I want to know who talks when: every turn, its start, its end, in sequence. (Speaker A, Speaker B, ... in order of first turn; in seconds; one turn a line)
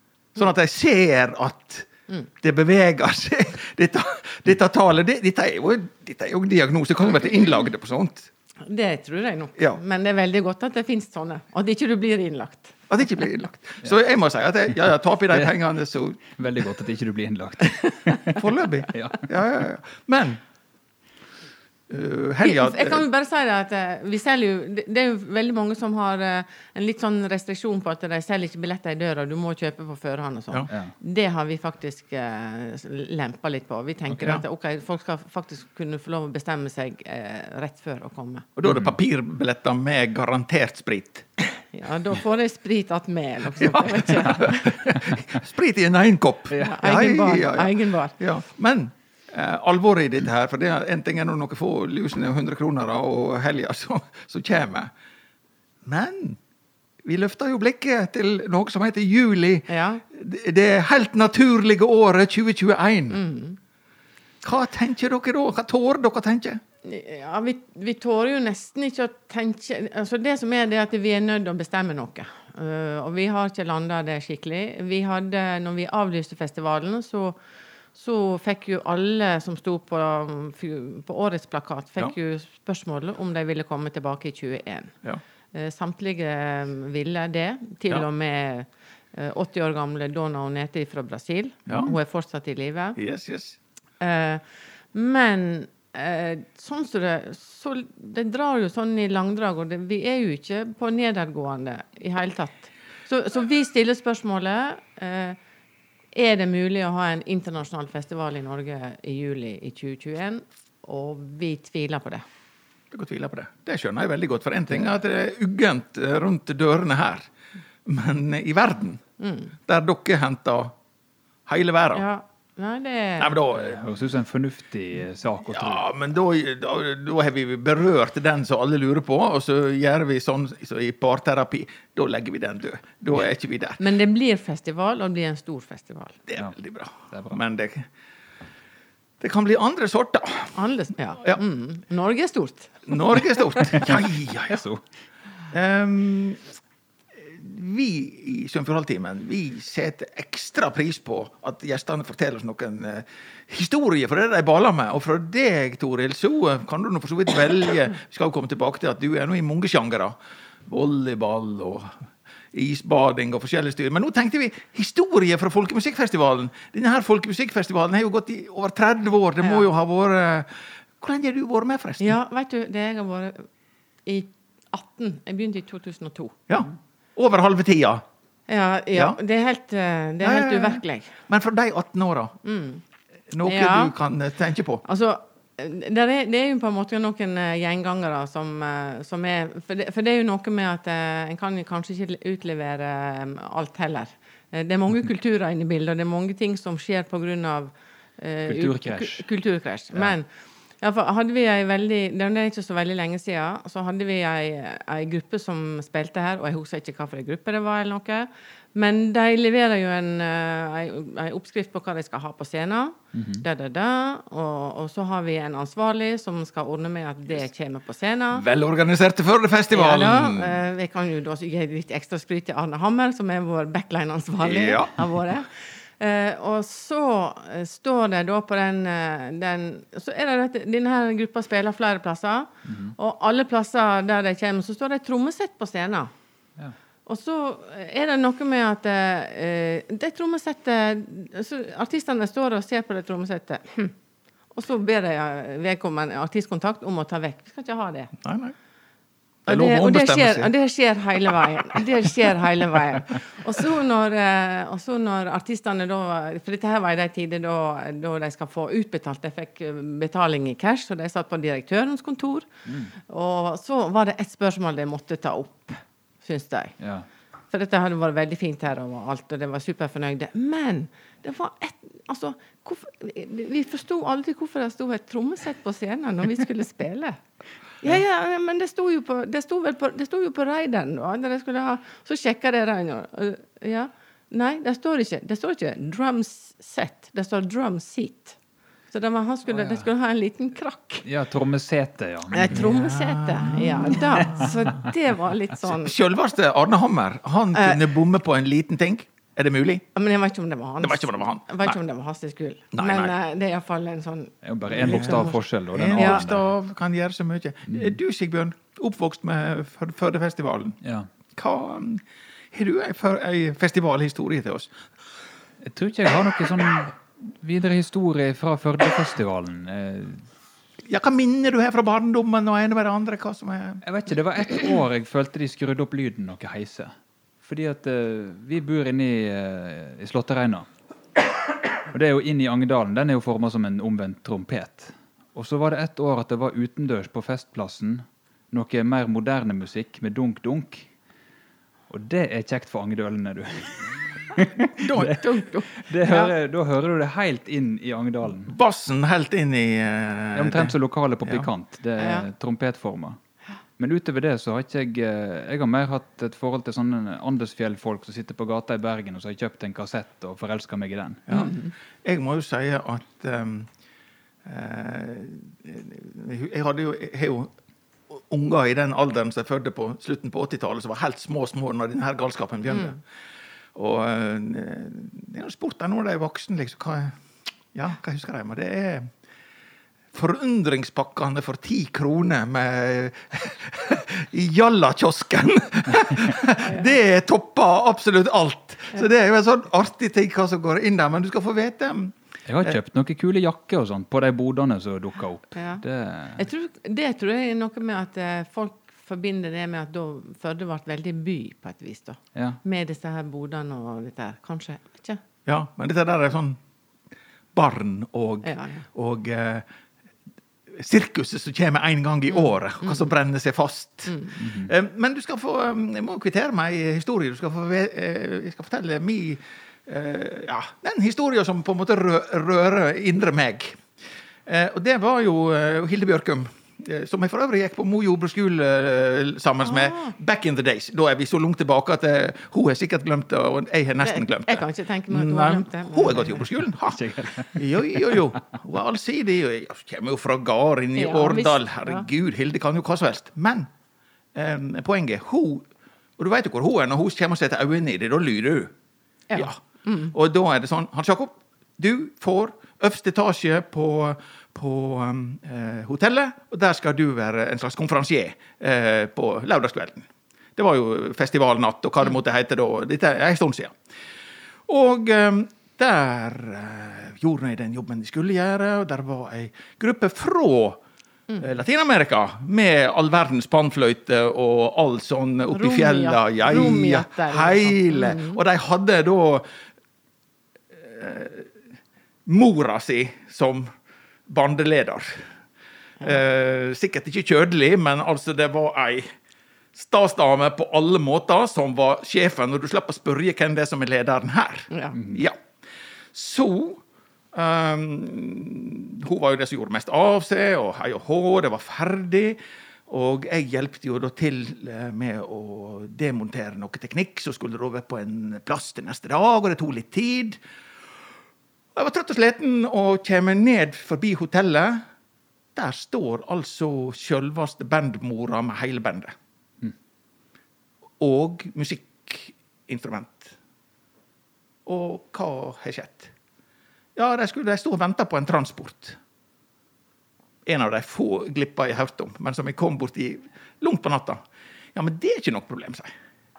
Speaker A: 0.4-1.9
Speaker A: 2.4-8.3
Speaker B: 8.7-12.8
Speaker A: 12.9-16.4
Speaker C: 16.4-19.3
Speaker A: 18.4-20.4
Speaker A: 21.9-23.0
Speaker B: 22.4-38.5
Speaker A: 34.2-34.4
Speaker A: 38.6-41.3
Speaker B: 41.5-44.8
Speaker A: 43.6-54.9
Speaker B: 46.6-48.1
Speaker A: 55.9-56.4
Speaker A: 57.0-63.2
Speaker B: 59.7-60.0
Speaker B: 63.1-63.6
Speaker A: 64.4-66.6
Speaker B: 66.8-77.4
Speaker B: 77.9-85.0
Speaker B: 85.5-93.0
Speaker A: 91.7-91.9
Speaker A: 93.0-93.6
Speaker B: 94.0-105.4
Speaker B: 106.1-112.2
Speaker A: 112.9-117.3
Speaker A: 117.8-119.0
Speaker B: 119.2-119.5
Speaker A: 119.7-120.8
Speaker A: 121.5-122.0
Speaker B: 121.9-123.4
Speaker A: 123.2-123.8
Speaker C: 123.5-125.8
Speaker A: 125.5-133.8
Speaker B: 133.8-136.2
Speaker A: 136.3-137.9
Speaker C: 137.1-137.4
Speaker A: 139.2-140.6
Speaker B: 140.6-143.6
Speaker A: 142.9-144.6
Speaker C: 143.8-144.8
Speaker A: 145.5-146.5
Speaker A: 147.2-160.2
Speaker A: 160.7-172.2
Speaker B: 172.0-173.5
Speaker B: 174.1-176.4
Speaker A: 176.5-178.0
Speaker B: 178.5-181.2
Speaker A: 178.9-179.2
Speaker A: 180.2-182.4
Speaker B: 182.4-182.8
Speaker A: 183.3-184.8
Speaker B: 183.4-183.9
Speaker B: 184.8-200.3
Speaker C: 198.5-199.3
Speaker B: 200.8-218.5
Speaker C: 213.1-213.4
Speaker A: 218.3-220.6
Speaker B: 219.7-236.1
Speaker A: 224.4-225.0
Speaker C: 232.7-232.9
Speaker B: 237.1-243.9
Speaker B: 244.5-248.1
Speaker A: 248.2-248.6
Speaker A: 249.5-250.5
Speaker B: 249.5-262.5
Speaker C: 262.7-262.9
Speaker B: 263.1-266.8
Speaker C: 266.8-267.1
Speaker B: 267.5-277.2
Speaker B: 277.8-288.4
Speaker B: 288.9-291.1
Speaker C: 289.5-289.9
Speaker C: 291.1-292.6
Speaker B: 292.3-295.9
Speaker A: 292.5-294.5
Speaker A: 295.6-299.9
Speaker B: 297.5-297.9
Speaker B: 299.9-306.2
Speaker A: 300.8-301.8
Speaker A: 302.7-303.1
Speaker C: 304.4-306.4
Speaker A: 304.8-310.8
Speaker C: 310.8-311.1
Speaker A: 311.4-314.7
Speaker C: 315.6-320.3
Speaker A: 320.9-323.8
Speaker C: 323.8-326.9
Speaker C: 327.4-330.7
Speaker C: 331.9-340.9
Speaker C: 341.9-345.2
Speaker A: 344.8-345.2
Speaker B: 345.0-346.3
Speaker C: 345.9-348.5
Speaker A: 348.4-351.5
Speaker C: 350.4-353.2
Speaker B: 352.0-352.3
Speaker C: 353.8-361.3
Speaker A: 361.3-363.7
Speaker B: 361.3-361.7
Speaker A: 364.4-367.5
Speaker A: 368.1-373.0
Speaker A: 373.8-377.2
Speaker A: 377.7-379.1
Speaker A: 380.1-392.8
Speaker B: 386.6-386.9
Speaker C: 392.5-396.4
Speaker B: 395.6-395.8
Speaker B: 396.4-405.2
Speaker A: 405.5-406.6
Speaker A: 407.5-409.7
Speaker B: 408.4-408.9
Speaker A: 410.7-423.9
Speaker B: 412.3-413.1
Speaker C: 414.4-414.7
Speaker A: 424.5-443.7
Speaker B: 429.6-430.1
Speaker B: 434.0-436.4
Speaker C: 436.8-437.6
Speaker B: 441.0-442.1
Speaker A: 444.3-445.7
Speaker A: 446.2-448.7
Speaker B: 449.3-450.1
Speaker A: 450.1-463.8
Speaker A: 464.7-470.8
Speaker A: 471.4-479.5
Speaker B: 475.5-478.4
Speaker A: 480.7-481.5
Speaker A: 482.3-483.7
Speaker A: 484.3-485.3
Speaker A: 486.0-489.1
Speaker A: 489.7-495.4
Speaker B: 494.7-495.0
Speaker A: 496.1-510.4
Speaker A: 511.7-514.9
Speaker A: 515.5-519.2
Speaker A: 521.0-523.4
Speaker A: 524.7-526.1
Speaker A: 527.0-529.0
Speaker A: 530.5-534.2
Speaker A: 534.7-535.9